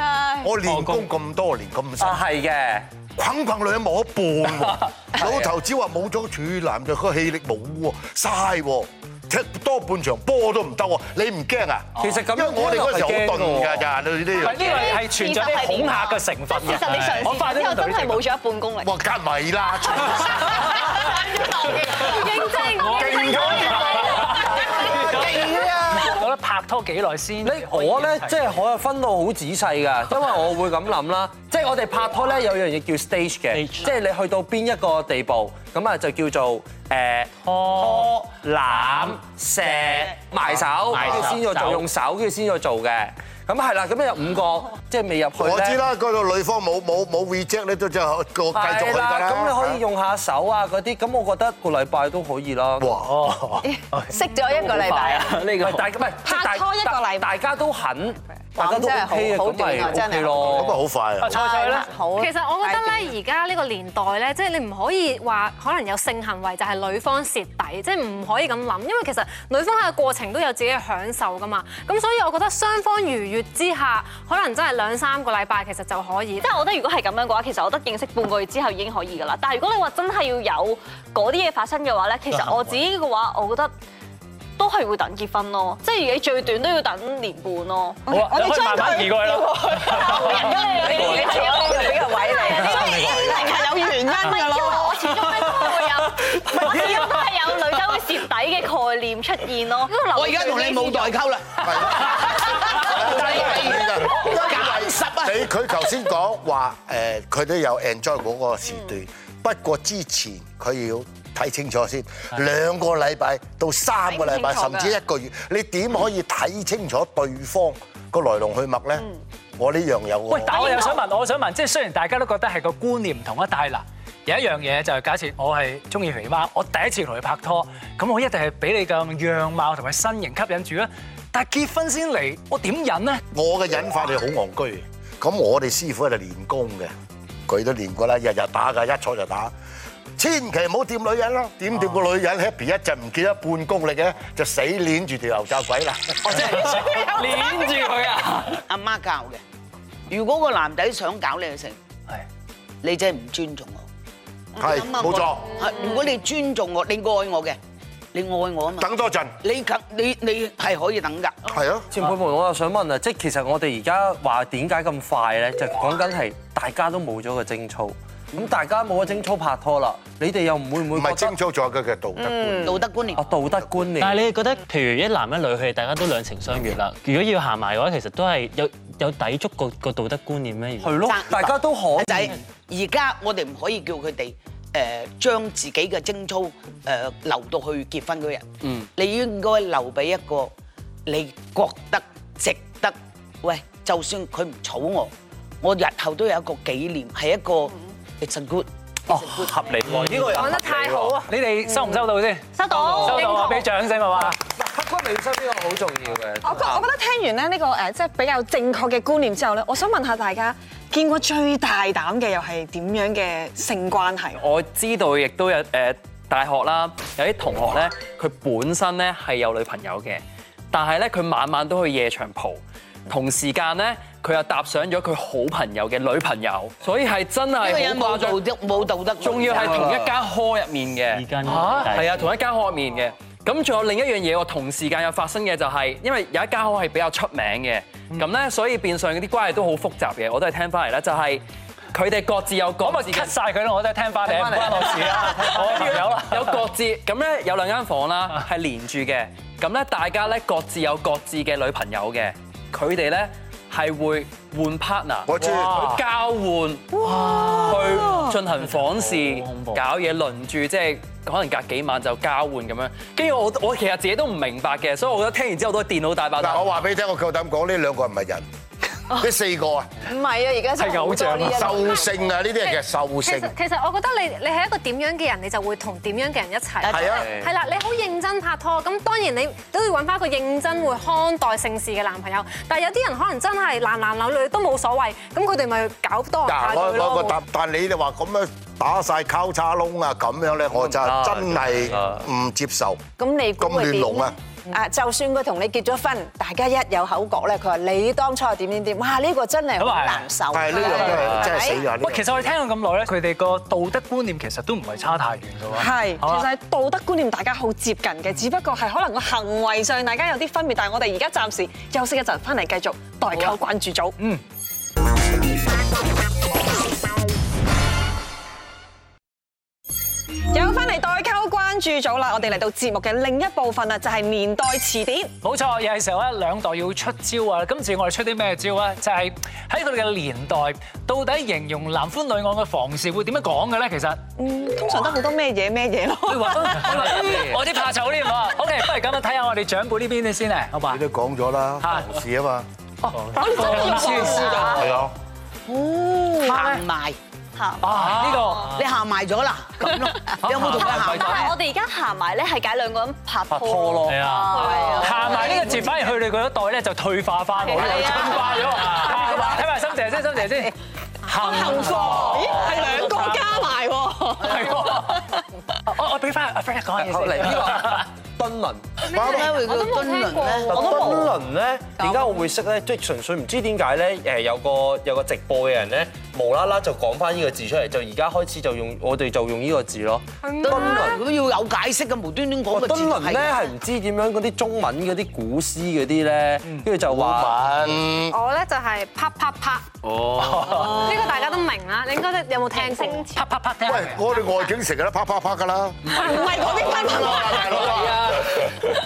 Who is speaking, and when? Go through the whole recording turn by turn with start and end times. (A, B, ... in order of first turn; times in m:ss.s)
0:00.4-0:02.2 A
0:00.6-0:01.1 B
0:02.0-0:02.9 B
0:03.2-0:14.9 A
0:05.2-0:05.5 B
0:12.0-0:13.8 B
0:14.4-0:18.2 C
0:14.4-0:18.9 D
0:18.8-0:20.6 A
0:20.8-0:24.3 D
0:22.9-0:24.3 A
0:23.2-0:23.7 E
0:24.2-0:28.5 C
0:24.9-0:25.4 A
0:25.2-0:26.0 F
0:27.4-0:45.8 B
0:33.5-0:33.9 G
0:37.5-0:38.1 G
0:38.7-0:39.2 G
0:40.5-0:41.8 G
0:45.4-0:49.8 A
0:48.5-0:53.0 B
0:52.8-0:53.1 A
0:53.0-0:54.1 C
0:54.1-0:55.4 H
0:54.7-0:55.9 I
0:55.4-1:00.8 B
0:56.2-0:57.3 J
0:58.6-1:00.7 H
1:00.4-1:01.4 A
1:01.2-1:01.9 C
1:01.3-1:02.9 H
1:02.2-1:16.5 E
1:16.4-1:23.7 D
1:24.6-1:28.0 D
1:28.1-1:31.5 J
1:28.1-1:30.6 C
1:30.1-1:33.4 D
1:30.3-1:33.0 H
1:32.1-1:35.0 J
1:34.2-1:40.7 D
1:39.9-1:41.1 E
1:40.1-1:45.5 F
1:41.6-2:00.7 A
1:54.1-1:55.0 D
2:00.3-2:13.2 C
2:00.6-2:00.9 E
2:13.3-2:16.9 A
2:17.5-2:19.5 A
2:20.2-2:26.4 A
2:26.3-2:28.6 I
2:26.3-2:27.5 F
2:28.7-2:29.4 F
2:30.1-2:31.8 F
2:32.8-2:33.8 F
2:34.5-2:37.6 F
2:34.6-2:35.5 A
2:38.1-2:38.9 F
2:38.8-2:39.4 A
2:39.4-2:41.5 F
2:41.4-2:41.9 A
2:41.9-2:51.4 B
2:50.9-2:52.8 A
2:52.2-2:52.7 H
2:52.6-2:53.2 F
2:53.1-2:54.2 B
2:53.4-2:54.0 A
2:54.0-3:01.1 G
3:00.8-3:02.3 B
3:01.0-3:10.5 F
3:11.1-3:19.8 F
3:19.6-3:21.2 B
3:19.9-3:20.3 G
3:20.3-3:21.3 E
3:21.3-3:22.5 C
3:22.5-3:23.5 D
3:22.7-3:23.2 B
3:23.0-3:24.4 C
3:23.1-3:23.7 E
3:24.3-3:26.9 B
3:26.4-3:34.4 J
3:34.4-3:48.4 I
3:47.6-3:50.0 F
3:49.2-4:03.4 I
3:49.4-3:50.1 B
3:51.1-3:52.3 G
4:02.8-4:06.6 C
4:04.3-4:26.7 I
4:15.3-4:15.9 A
4:16.9-4:18.3 J
4:18.6-4:19.8 G
4:26.4-4:28.5 A
4:29.1-4:29.9 A
4:30.0-4:32.1 H
4:30.8-4:31.7 C
4:31.4-4:33.5 A
4:32.6-4:47.4 E
4:36.8-4:37.3 F
4:36.9-4:37.3 A
4:37.0-4:37.5 B
4:46.5-4:54.4 A
4:50.7-4:52.2 B
4:53.2-5:01.8 H
4:59.8-5:00.3 C
5:00.5-5:02.5 A
5:00.9-5:01.2 C
5:01.9-5:06.5 C
5:05.7-5:14.2 J
5:20.5-5:25.4 J
5:25.4-5:34.2 C
5:34.4-5:37.2 J
5:36.3-5:41.0 C
5:36.8-5:37.6 I
5:40.9-5:42.7 A
5:41.8-5:42.2 C
5:43.0-5:44.8 C
5:43.1-5:44.2 G
5:43.4-5:44.8 J
5:44.7-5:45.1 A
5:45.7-5:47.2 F
5:46.5-5:46.8 C
5:47.6-5:48.6 D
5:47.8-5:48.7 C
5:47.9-5:48.6 I
5:48.7-5:51.5 F
5:50.4-5:51.5 I
5:50.6-5:51.3 B
5:50.7-5:56.0 D
5:53.5-5:54.6 B
5:54.0-5:55.0 G
5:54.8-5:55.8 J
5:55.0-6:00.7 C
5:57.6-5:58.7 D
6:01.3-6:03.6 C
6:01.3-6:05.0 J
6:04.4-6:05.2 C
6:05.9-6:08.0 C
6:07.0-6:08.9 B
6:09.1-6:11.2 E
6:09.1-6:11.0 F
6:10.7-6:21.2 B
6:10.7-6:11.3 D
6:20.4-6:21.2 E
6:20.6-6:23.6 F
6:22.7-6:27.7 B
6:27.1-6:28.3 A
6:28.3-6:29.8 E
6:30.0-6:31.1 I
6:30.4-6:31.0 C
6:30.8-6:33.4 E
6:33.3-6:34.2 C
6:33.8-6:38.6 A
6:36.1-6:37.8 J
6:37.6-6:38.7 I